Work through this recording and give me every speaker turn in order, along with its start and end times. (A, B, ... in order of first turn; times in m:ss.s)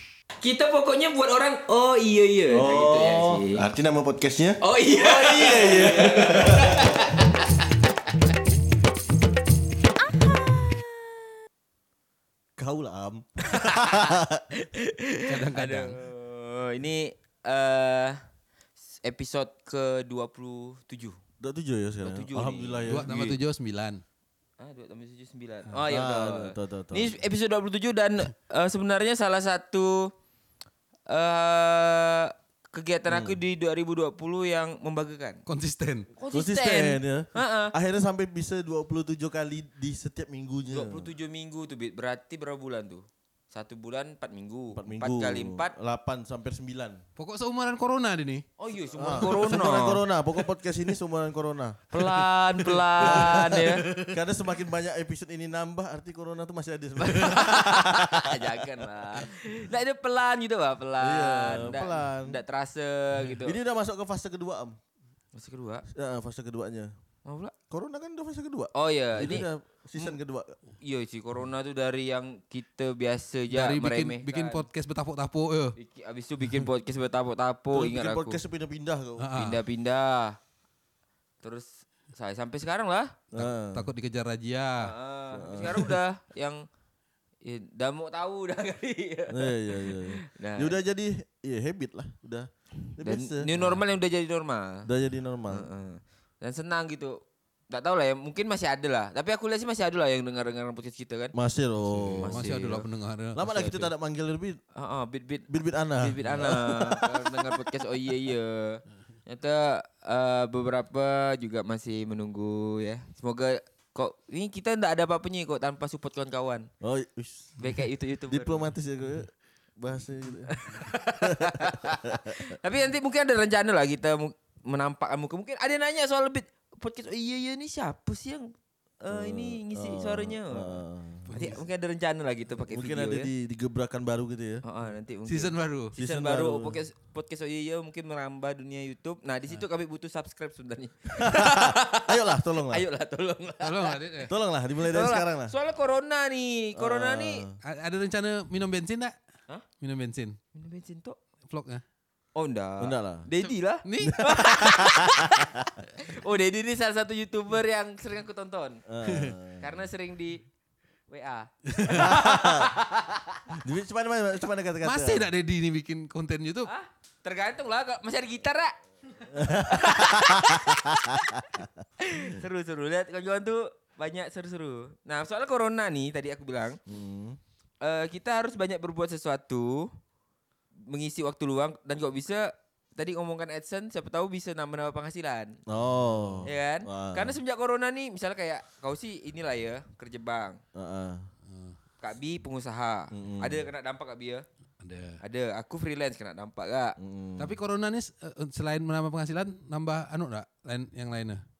0:00.4-0:03.6 A
0:02.5-0:07.2 B
0:04.6-0:07.8 A
0:10.0-0:11.2 A
0:12.6-0:14.4 B
0:13.4-0:18.2 A
0:15.3-0:15.9 C
0:19.0-0:21.2 A
0:21.4-0:23.1 B
0:22.0-0:23.4 A
0:22.8-0:24.0 C
0:24.6-0:30.1 A
0:25.9-0:27.2 B
0:31.1-0:35.4 A
0:33.1-0:33.4 B
0:35.4-0:36.1 C
0:36.2-0:37.7 A
0:36.3-0:41.1 B
0:40.7-0:45.7 A
0:44.7-0:47.0 B
0:47.2-0:48.4 C
0:48.6-0:50.0 A
0:49.0-0:51.8 B
0:51.9-0:53.8 A
0:53.0-0:59.3 B
0:53.0-0:53.3 C
0:57.0-1:03.6 A
1:01.0-1:02.4 B
1:03.4-1:04.8 B
1:05.3-1:05.8 A
1:05.9-1:06.9 B
1:07.2-1:07.5 A
1:07.7-1:10.6 B
1:08.7-1:10.1 A
1:10.8-1:14.6 A
1:13.5-1:15.8 C
1:15.8-1:18.4 A
1:17.7-1:19.5 B
1:19.2-1:19.6 C
1:19.4-1:20.4 A
1:21.4-1:23.1 A
1:23.3-1:23.9 B
1:23.3-1:24.9 C
1:24.8-1:26.6 A
1:25.3-1:25.9 B
1:27.4-1:30.8 A
1:29.3-1:33.5 B
1:33.0-1:34.9 A
1:34.8-1:35.7 B
1:35.5-1:37.2 A
1:37.7-1:41.3 A
1:41.3-1:42.5 B
1:41.8-1:43.8 C
1:42.2-1:42.8 A
1:43.3-1:44.6 B
1:44.8-1:45.5 A
1:45.5-1:47.6 B
1:46.0-1:56.7 A
1:56.8-1:57.6 B
1:57.6-1:58.7 A
1:58.3-2:00.5 B
2:00.5-2:10.8 A
2:01.2-2:02.4 B
2:09.1-2:11.3 B
2:11.3-2:11.6 C
2:11.3-2:13.3 A
2:12.6-2:14.6 B
2:14.6-2:24.0 A
2:15.3-2:15.9 C
2:16.0-2:16.8 B
2:21.2-2:22.8 B
2:23.6-2:24.3 C
2:24.2-2:25.5 B
2:24.8-2:27.4 A
2:26.8-2:27.6 B
2:27.6-2:29.1 C
2:29.8-2:30.4 C
2:30.5-2:31.2 A
2:31.5-2:31.8 C
2:32.4-2:38.8 A
2:32.8-2:33.3 B
2:33.4-2:34.4 C
2:34.0-2:35.8 B
2:38.9-2:39.7 B
2:39.0-2:39.3 C
2:39.6-2:40.4 A
2:41.1-2:43.6 A
2:41.7-2:42.1 C
2:41.8-2:42.7 B
2:43.5-2:45.3 B
2:44.8-2:46.7 C
2:46.6-2:56.8 A
2:49.2-2:52.4 B
2:56.9-2:57.4 B
2:57.8-2:59.9 A
3:00.9-3:05.6 A
3:05.7-3:07.4 B
3:06.4-3:10.6 A
3:10.7-3:11.3 B
3:11.5-3:11.8 C
3:12.0-3:14.4 A
3:13.1-3:13.7 B
3:14.8-3:15.2 C
3:15.2-3:17.0 A
3:17.0-3:17.6 B
3:17.4-3:21.4 C